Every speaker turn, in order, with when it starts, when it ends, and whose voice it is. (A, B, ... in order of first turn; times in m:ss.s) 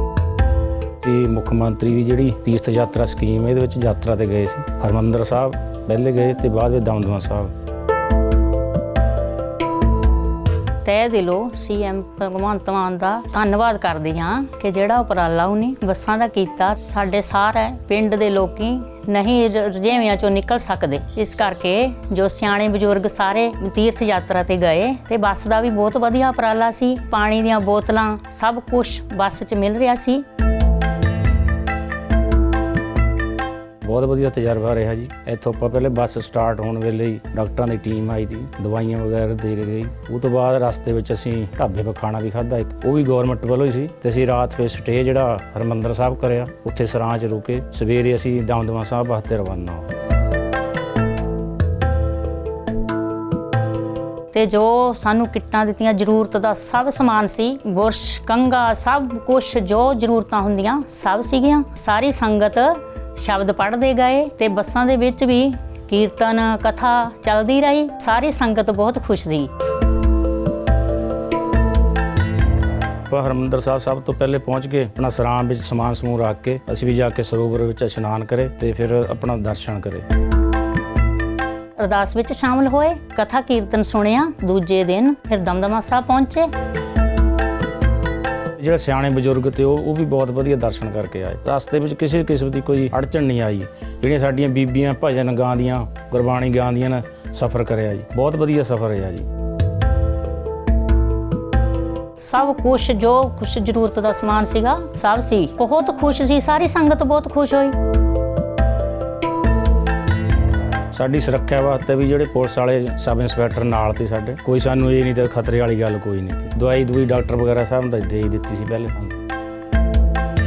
0:01.0-0:07.5 A
0:10.8-0:30.2 B
0:33.8-0:49.9 A
0:54.3-1:09.5 B
1:13.1-1:20.0 A
1:21.8-1:26.5 B
1:28.6-1:39.2 A
1:42.2-1:47.7 B
1:50.9-1:59.1 A